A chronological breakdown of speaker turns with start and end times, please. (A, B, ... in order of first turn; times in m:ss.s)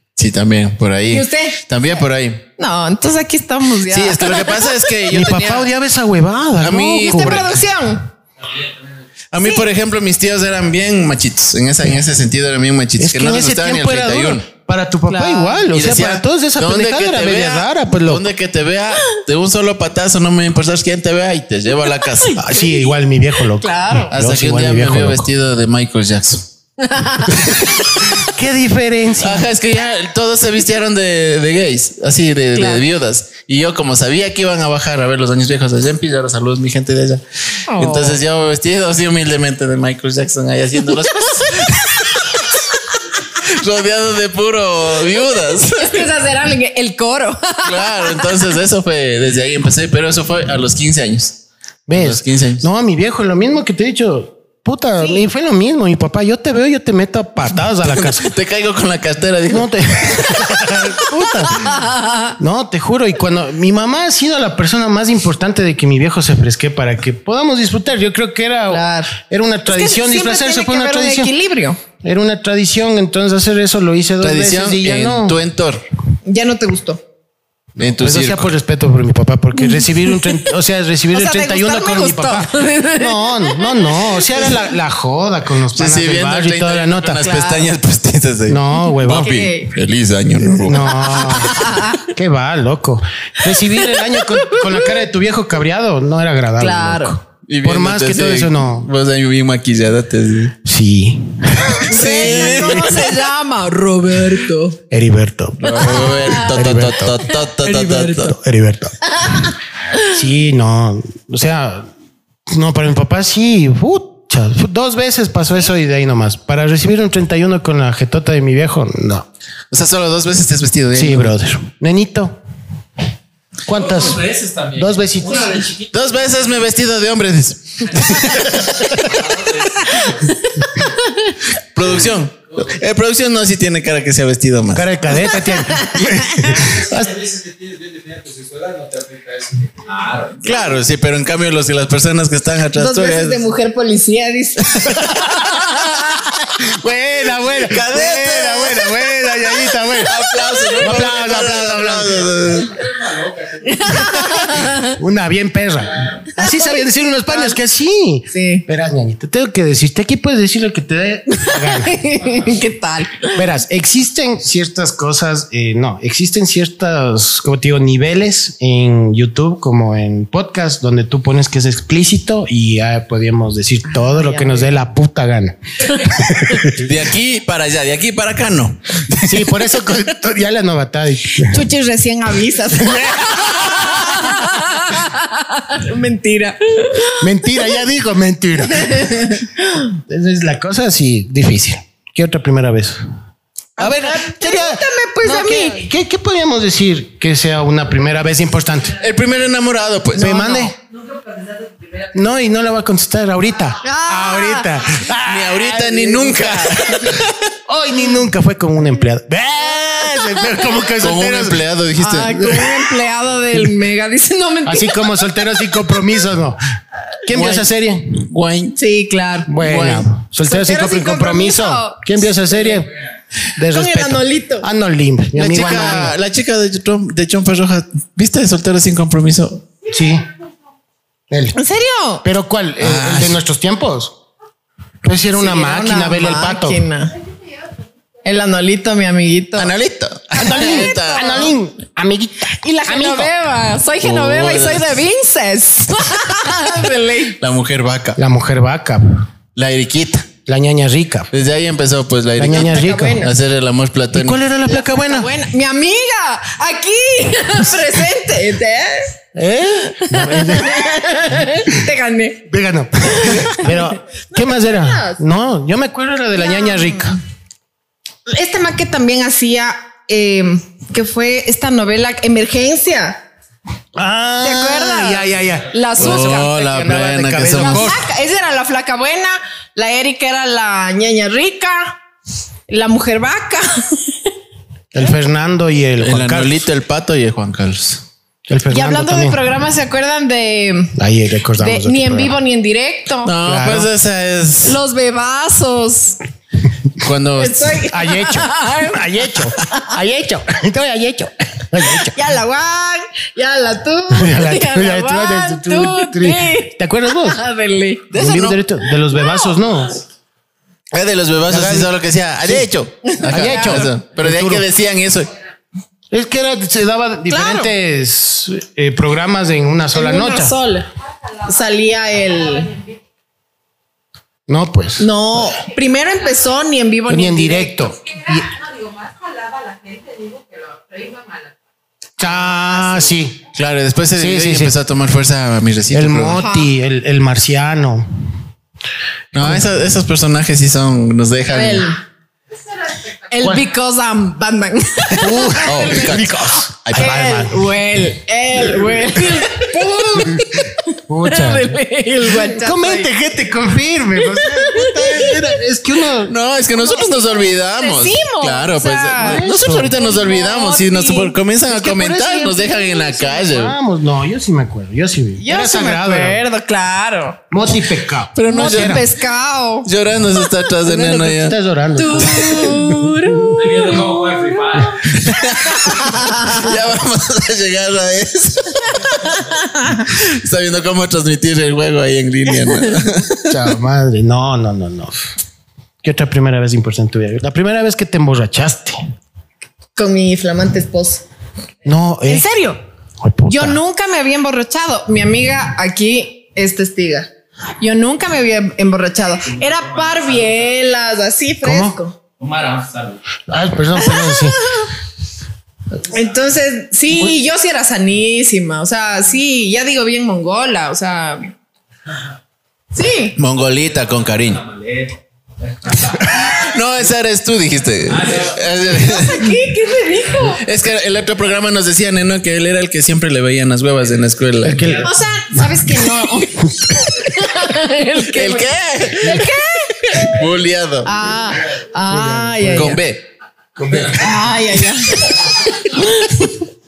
0:00.2-0:02.4 A
0:01.1-0:01.6 B
0:02.6-0:04.9 B
0:03.9-0:05.7 A
0:05.1-0:07.6 C
0:06.6-0:07.6 A
0:07.0-0:08.1 B
0:08.4-0:08.9 D
0:09.3-0:14.4 A
0:13.0-0:18.2 C
0:15.1-0:15.7 B
0:15.7-0:22.4 A
0:22.0-0:24.1 B
0:22.4-0:25.3 C
0:24.1-0:26.5 A
0:26.8-0:27.5 B
0:27.3-0:28.2 A
0:28.0-0:29.5 C
0:29.2-0:37.2 A
0:32.6-0:32.8 B
0:37.7-0:38.2 B
0:37.7-0:42.6 A
0:43.4-0:46.1 A
0:45.7-0:48.4 B
0:47.6-0:51.4 A
0:51.9-0:58.3 C
0:51.9-0:52.7 A
0:58.0-1:00.8 A
0:59.5-1:01.8 C
1:01.6-1:02.4 B
1:02.4-1:11.3 C
1:08.7-1:09.1 B
1:09.7-1:11.8 B
1:12.0-1:15.4 C
1:14.2-1:15.8 A
1:16.3-1:17.0 B
1:17.8-1:18.5 A
1:17.8-1:27.3 C
1:19.6-1:20.4 B
1:21.1-1:24.5 B
1:25.7-1:31.6 A
1:27.2-1:27.7 B
1:28.5-1:29.3 C
1:29.0-1:29.7 B
1:30.4-1:38.9 C
1:30.9-1:32.0 B
1:33.8-1:35.0 B
1:36.6-1:37.2 B
1:37.5-1:40.6 A
1:40.6-1:43.0 C
1:41.8-1:44.8 B
1:41.8-1:43.0 A
1:44.9-1:49.1 C
1:45.6-1:48.4 A
1:45.8-1:46.5 B
1:49.2-1:50.0 B
1:50.1-1:51.9 C
1:52.5-1:59.3 C
1:59.7-2:01.3 A
2:00.9-2:02.4 C
2:03.6-2:05.6 C
2:03.7-2:06.2 D
2:05.9-2:08.9 A
2:08.9-2:10.4 D
2:10.6-2:11.4 B
2:11.7-2:14.9 A
2:14.7-2:17.2 C
2:15.5-2:16.7 B
2:16.6-2:20.5 D
2:20.4-2:23.4 A
2:22.8-2:26.0 B
2:24.7-2:25.3 A
2:26.6-2:30.1 C
2:27.6-2:29.0 A
2:30.0-2:32.8 A
2:30.3-2:31.0 B
2:30.8-2:32.4 C
2:32.7-2:33.9 D
2:33.6-2:35.0 B
2:34.8-2:42.0 C
2:36.4-2:37.6 B
2:38.3-2:38.6 B
2:41.4-2:43.4 B
2:43.3-2:56.9 C
2:54.0-2:54.7 B
2:56.8-2:59.7 A
2:59.2-3:01.7 C
3:01.4-3:07.3 B
3:02.7-3:04.1 C
3:07.2-3:09.4 C
3:08.7-3:09.9 B
3:10.0-3:13.0 C
3:13.8-3:15.9 B
3:13.8-3:19.0 C
3:19.0-3:20.4 A
3:20.2-3:20.8 C
3:20.2-3:20.7 B
3:22.1-3:31.6 C
3:23.8-3:25.0 B
3:25.2-3:27.4 A
3:31.0-3:32.9 A
3:32.0-3:35.1 B
3:34.6-3:36.6 C
3:37.2-3:38.2 C
3:37.3-3:38.8 A
3:38.8-3:39.6 B
3:39.5-3:42.9 C
3:39.6-3:40.1 A
3:40.4-3:42.8 B
3:43.6-3:46.2 C
3:43.7-3:44.7 B
3:45.4-3:49.6 A
3:49.9-3:50.2 C
3:51.3-3:51.6 C
3:51.6-3:52.2 B
3:52.2-3:54.2 C
3:52.8-3:53.4 A
3:55.0-3:56.8 C
3:55.4-3:57.2 B
3:58.2-3:59.7 B
3:59.6-4:01.5 A
4:00.4-4:03.3 C
4:00.4-4:01.5 B
4:02.6-4:07.4 B
4:04.0-4:05.0 A
4:07.4-4:08.2 A
4:08.2-4:09.2 C
4:09.6-4:10.3 A
4:10.5-4:11.3 C
4:11.3-4:14.4 A
4:12.4-4:13.2 C
4:12.5-4:13.3 B
4:14.1-4:15.3 C
4:14.7-4:19.2 B
4:19.4-4:20.8 C
4:19.9-4:22.5 B
4:22.5-4:27.2 C
4:23.0-4:25.2 B
4:26.4-4:27.2 B
4:28.3-4:33.2 B
4:34.0-4:38.0 C
4:34.4-4:42.0 B
4:36.0-4:38.0 A
4:42.7-4:44.1 B
4:44.9-4:46.7 C
4:46.0-4:48.0 A
4:48.5-4:49.4 C
4:48.7-4:50.9 B
4:51.0-4:52.4 C
4:51.6-4:53.3 B
4:53.2-4:54.8 A
4:53.4-4:53.9 C
4:54.6-4:56.2 B
4:57.0-4:57.8 A
4:57.4-4:59.0 B
4:57.9-5:02.2 C
5:02.0-5:08.2 B
5:04.1-5:07.4 C
5:08.1-5:08.6 A
5:08.1-5:10.0 C
5:10.9-5:15.3 A
5:11.5-5:12.7 C
5:13.1-5:13.8 B
5:13.3-5:14.7 C
5:16.1-5:20.5 C
5:17.3-5:17.7 B
5:19.9-5:20.9 B
5:21.4-5:22.8 B
5:24.5-5:25.4 C
5:25.0-5:28.0 B
5:27.1-5:28.5 C
5:28.1-5:31.5 E
5:32.2-5:33.4 C
5:32.6-5:33.1 B
5:33.5-5:36.4 A
5:34.2-5:34.8 C
5:35.9-5:38.2 C
5:36.4-5:36.7 B
5:39.3-5:41.9 A
5:39.4-5:39.7 C
5:41.5-5:42.0 B
5:43.3-5:46.1 B
5:43.4-5:43.6 C
5:45.2-5:47.6 C
5:45.6-5:47.3 A
5:47.0-5:53.1 B
5:49.8-5:56.4 C
5:54.2-5:55.5 B
5:56.2-6:03.8 A
5:56.8-6:01.4 B
5:59.2-6:00.0 C
6:01.7-6:06.4 C
6:02.6-6:03.1 B
6:05.4-6:07.4 B
6:07.5-6:09.0 C
6:08.4-6:09.1 A
6:08.5-6:09.9 B
6:09.8-6:11.6 A
6:10.9-6:13.6 C
6:12.0-6:15.1 B
6:12.2-6:12.7 A
6:13.6-6:15.1 D
6:15.1-6:19.4 A
6:15.6-6:16.7 B
6:19.3-6:20.1 B
6:20.1-6:23.6 A
6:23.5-6:25.3 C
6:26.0-6:29.0 C
6:30.0-6:31.2 B
6:31.8-6:32.4 C
6:32.3-6:32.8 B
6:33.2-6:33.8 C
6:33.5-6:42.2 B
6:39.5-6:40.6 D
6:41.6-6:42.0 C
6:42.4-6:43.2 D
6:43.5-6:44.6 C
6:44.1-6:44.9 B
6:46.1-6:51.5 B
6:52.9-6:53.4 B
6:53.4-6:54.6 A
6:54.1-6:56.4 D
6:56.3-6:59.5 A
6:58.1-6:58.6 D
6:58.9-7:00.6 B
7:00.4-7:05.0 A
7:04.6-7:06.0 C
7:04.8-7:05.0 D
7:05.0-7:10.4 B
7:06.6-7:07.0 C
7:08.2-7:09.5 A
7:10.2-7:11.1 A
7:11.0-7:13.0 B
7:12.1-7:13.0 C
7:12.7-7:13.2 A
7:13.8-7:14.5 C
7:14.1-7:16.7 B